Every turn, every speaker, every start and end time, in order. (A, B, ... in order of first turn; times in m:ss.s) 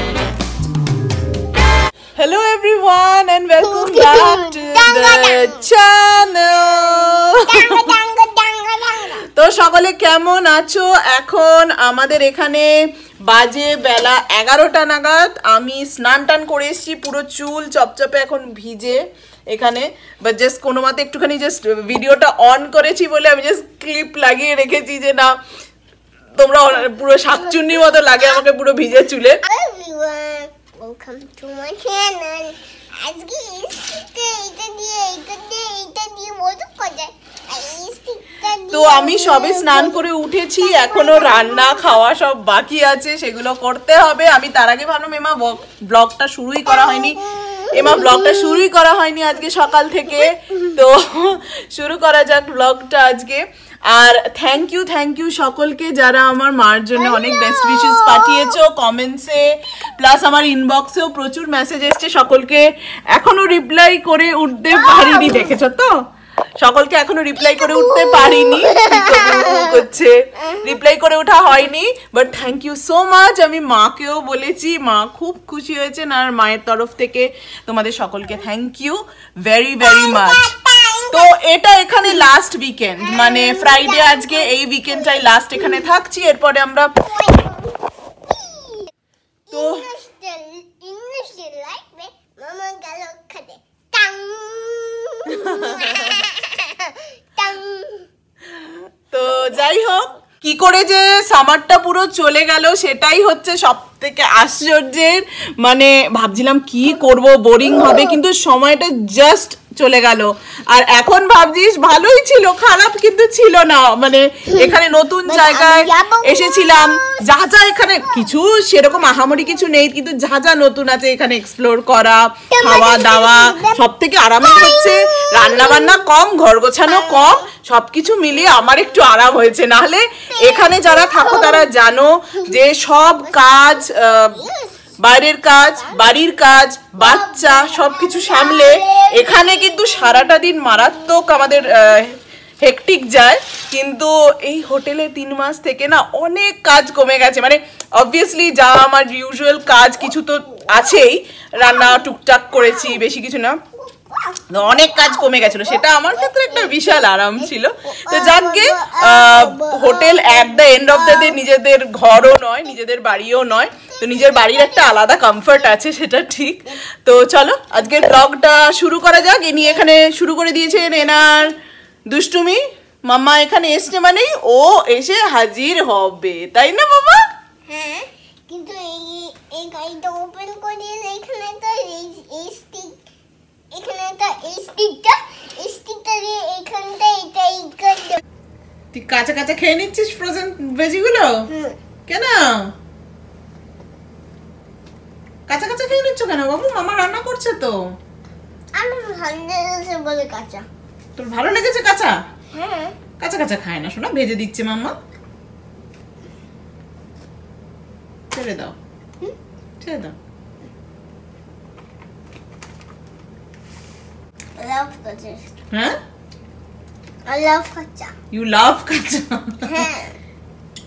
0:02.2-0:07.9 A
0:03.6-0:05.6 B
0:07.5-0:09.3 B
0:09.3-0:12.7 A
0:13.2-0:25.4 A
0:26.4-0:29.4 A
0:29.4-0:40.1 B
0:38.7-1:06.0 A
0:40.6-0:42.0 B
0:46.7-0:48.6 B
0:50.1-0:50.8 B
0:57.0-0:58.5 B
1:04.7-1:05.6 B
1:06.6-1:20.5 A
1:07.4-1:09.8 B
1:10.4-1:10.7 B
1:19.8-1:21.3 B
1:21.1-1:26.9 A
1:23.0-1:25.9 B
1:27.0-1:28.9 B
1:29.5-1:38.1 B
1:29.5-1:29.9 A
1:35.3-1:36.2 A
1:38.6-2:14.4 A
1:47.7-1:48.1 B
1:54.5-1:58.3 B
2:02.5-2:03.8 B
2:04.4-2:06.0 B
2:06.9-2:07.5 B
2:08.6-2:09.0 B
2:10.3-2:11.7 B
2:13.2-2:15.0 B
2:15.0-2:33.6 A
2:15.6-2:16.2 B
2:17.0-2:20.3 B
2:31.6-2:33.0 B
2:33.8-2:41.4 B
2:34.5-2:51.5 A
2:43.8-2:45.7 B
2:52.1-2:57.2 A
2:57.7-3:03.0 B
3:03.7-3:08.2 B
3:08.9-3:11.3 A
3:11.5-3:11.8 B
3:12.1-3:12.7 A
3:15.5-3:17.8 A
3:18.7-3:20.7 B
3:21.2-3:22.2 A
3:22.5-3:23.0 B
3:23.2-3:24.9 A
3:28.3-3:28.8 A
3:29.8-3:30.2 A
3:34.6-3:35.5 B
3:37.2-3:38.1 B
3:38.3-3:39.8 A
3:39.6-3:40.2 B